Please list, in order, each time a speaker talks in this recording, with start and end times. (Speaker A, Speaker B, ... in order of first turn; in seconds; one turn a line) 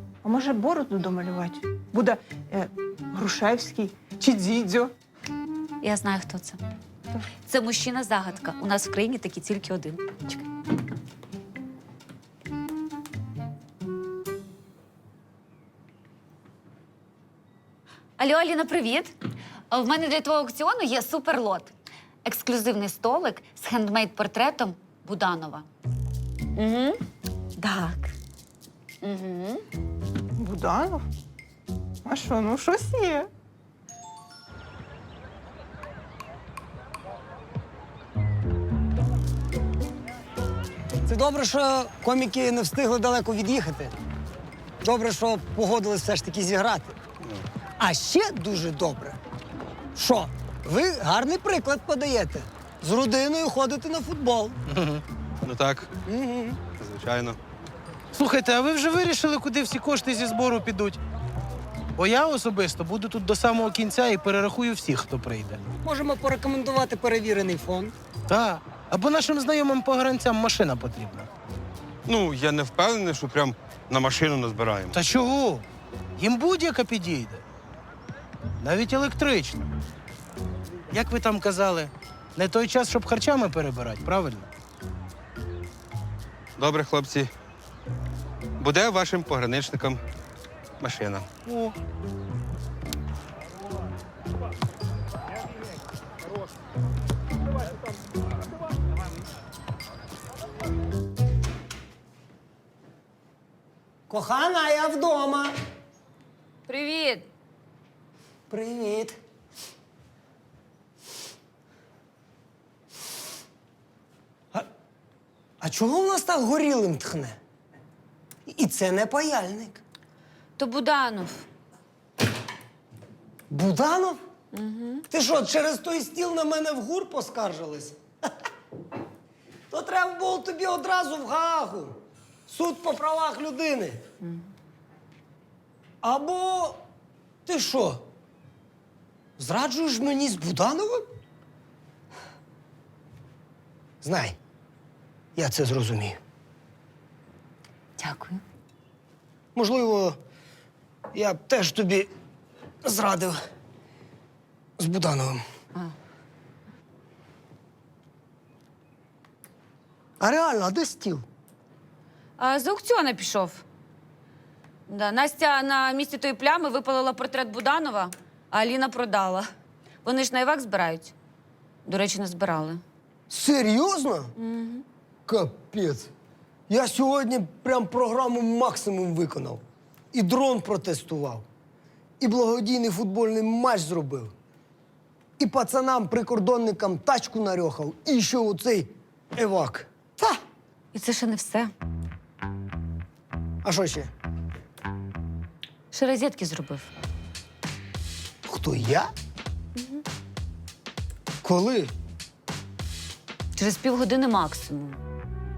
Speaker A: 0.2-4.9
Speaker B: 5.8-6.6
Speaker B: 7.4-10.4
Speaker B: 18.2-19.1
Speaker B: 19.7-21.7
Speaker B: 22.2-25.7
Speaker B: 26.6-27.0
Speaker B: 27.6-28.1
Speaker B: 29.0-29.6
Speaker A: 30.4-31.0
Speaker A: 32.0-33.3
Speaker C: 41.0-43.9
Speaker C: 44.8-47.0
Speaker C: 47.8-49.2
Speaker C: 49.9-54.6
Speaker D: 54.7-55.0
Speaker E: 55.4-55.9
Speaker C: 56.0-56.6
Speaker E: 56.7-57.4
Speaker D: 58.1-61.0
Speaker D: 62.0-65.7
Speaker C: 65.8-67.9
Speaker D: 68.3-71.3
Speaker E: 72.1-75.0
Speaker D: 74.9-75.7
Speaker D: 76.2-77.4
Speaker D: 78.6-79.7
Speaker D: 80.9-84.5
Speaker E: 86.6-87.3
Speaker E: 88.6-90.0
Speaker E: 90.8-91.3
Speaker D: 91.5-91.8
Speaker C: 104.1-105.5
Speaker B: 106.7-107.3
Speaker C: 108.5-109.2
Speaker C: 115.6-117.4
Speaker C: 118.5-119.8
Speaker B: 120.6-121.5
Speaker C: 123.5-124.2
Speaker B: 124.5-125.0
Speaker C: 125.1-128.0
Speaker C: 129.7-134.0
Speaker B: 134.2-134.5
Speaker C: 136.0-136.8
Speaker C: 137.4-138.1
Speaker C: 139.4-141.1
Speaker C: 144.0-144.4
Speaker C: 145.3-146.2
Speaker B: 148.0-148.4
Speaker C: 149.5-150.2
Speaker C: 151.1-152.1
Speaker C: 152.8-153.4
Speaker C: 154.8-155.4
Speaker C: 160.2-161.2
Speaker B: 162.4-163.6
Speaker B: 164.9-169.5
Speaker B: 170.0-171.1
Speaker B: 171.8-172.8
Speaker C: 173.3-174.3
Speaker B: 174.4-174.8
Speaker C: 175.2-176.1
Speaker C: 176.7-179.6
Speaker C: 180.1-181.4
Speaker C: 182.2-184.3
Speaker C: 185.4-190.4
Speaker B: 190.9-191.7
Speaker C: 193.6-194.1
Speaker B: 195.9-196.9
Speaker C: 198.4-199.1
Speaker B: 199.8-200.0
Speaker C: 201.4-201.9
Speaker B: 203.5-205.0